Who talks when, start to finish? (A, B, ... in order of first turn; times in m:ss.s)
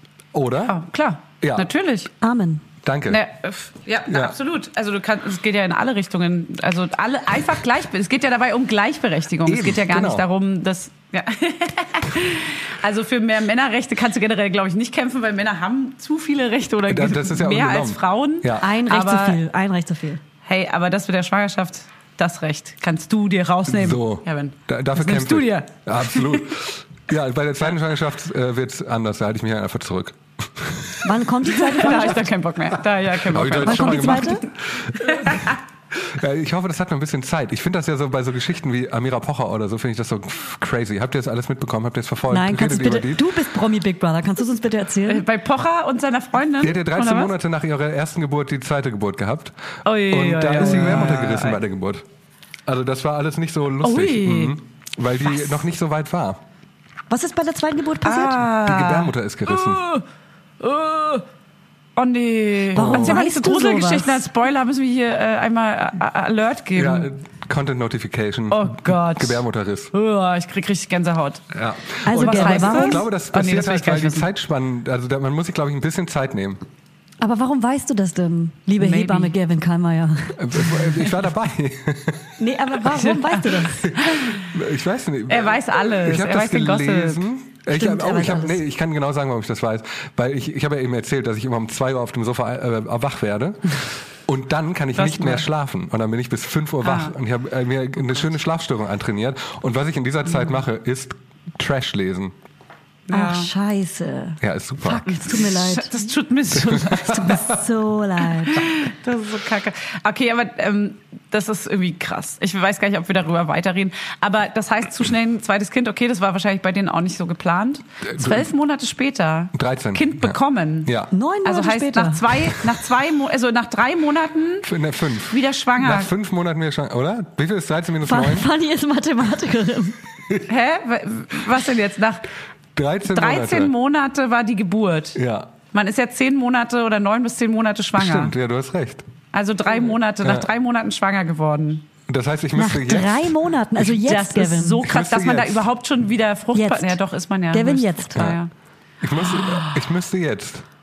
0:00.3-0:00.8 A
0:00.6-0:02.1 B
0:01.4-0:01.7 A
0:02.2-0:02.6 C
0:02.8-0:03.2 A
0:03.1-0:19.4 B
0:04.1-0:04.4 A
0:09.4-0:10.2 A
0:16.9-0:18.7 A
0:18.6-0:20.2 C
0:20.4-0:26.4 B
0:23.7-0:31.1 A
0:31.0-0:32.3 C
0:31.5-0:34.4 B
0:33.2-0:43.3 A
0:33.6-0:34.4 C
0:35.0-0:35.6 B
0:42.3-0:45.2 C
0:45.0-0:47.3 B
0:46.6-0:49.5 A
0:49.8-0:51.6 B
0:50.1-0:52.0 A
0:52.7-0:56.4 A
0:53.8-0:54.6 B
0:57.1-0:58.4 C
0:58.0-1:00.0 B
0:58.6-0:59.8 A
1:00.6-1:01.2 B
1:02.0-1:07.1 B
1:02.7-1:04.2 C
1:02.8-1:03.2 A
1:06.7-1:09.9 A
1:08.5-1:11.4 B
1:11.5-1:16.6 A
1:12.0-1:13.1 C
1:12.1-1:14.3 B
1:17.2-1:20.7 C
1:18.8-1:19.3 B
1:20.4-1:22.3 A
1:22.4-1:23.9 C
1:22.9-1:24.4 B
1:24.4-1:42.3 A
1:25.3-1:27.2 B
1:27.7-1:28.6 C
1:34.9-1:35.5 B
1:36.8-1:37.1 B
1:43.1-1:43.5 B
1:43.1-1:45.9 C
1:44.4-1:45.0 A
1:45.0-1:47.5 B
1:46.6-1:47.4 A
1:46.9-1:48.6 C
1:48.4-2:00.9 B
1:58.0-1:58.5 A
1:59.5-2:01.1 A
2:01.1-2:02.3 C
2:01.4-2:04.7 B
2:04.6-2:08.5 A
2:05.3-2:06.1 B
2:08.0-2:10.0 C
2:10.5-2:12.2 B
2:12.8-2:13.7 A
2:13.1-2:15.2 B
2:15.1-2:15.5 A
2:15.7-2:18.3 B
2:18.0-2:19.0 A
2:19.3-2:21.9 B
2:20.2-2:20.5 A
2:22.1-2:23.3 A
2:22.5-2:24.8 C
2:24.0-2:28.5 B
2:24.8-2:25.6 A
2:26.5-2:27.0 C
2:27.5-2:28.3 C
2:29.0-2:30.6 A
2:29.2-2:29.8 B